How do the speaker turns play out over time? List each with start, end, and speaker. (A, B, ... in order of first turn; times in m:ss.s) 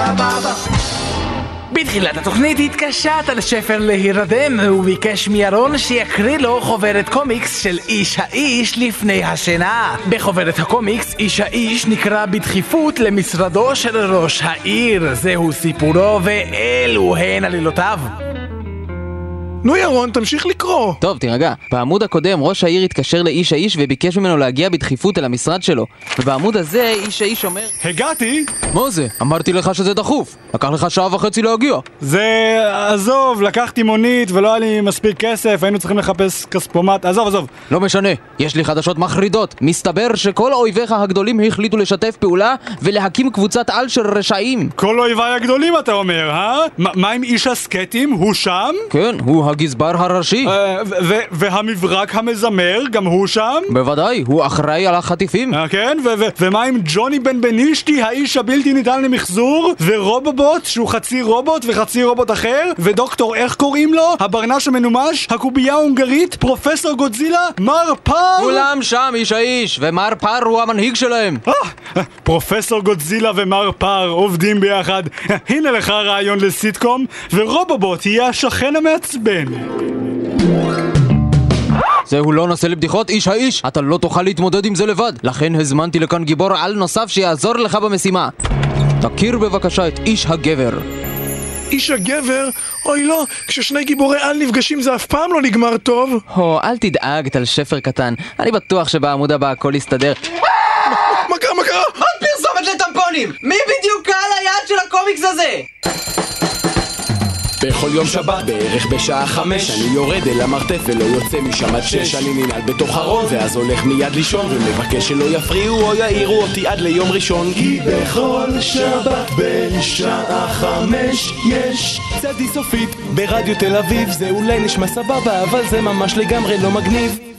0:01.7-0:18.1 A
0:19.6-0:21.0 B
0:21.0-0:27.7 C
0:27.8-0:28.5 D
0:28.7-0:31.9 C
0:32.0-0:37.5 D
0:37.7-0:44.7 C
0:44.8-0:48.9 D
0:48.9-0:50.5 C
0:50.4-0:53.7 D
0:53.7-0:55.6 C
0:55.5-1:08.7 D
1:08.4-1:11.4 C
1:11.5-1:19.7 D
1:22.1-1:28.3 C
1:29.0-1:30.8 C
1:31.7-1:36.2 B
1:36.3-1:40.2 C
1:40.9-1:41.2 C
1:40.9-1:42.0 B
1:42.0-1:45.7 C
1:47.6-1:57.9 E
1:58.2-2:01.0 A
2:01.5-2:02.6 A
2:02.9-2:07.2 E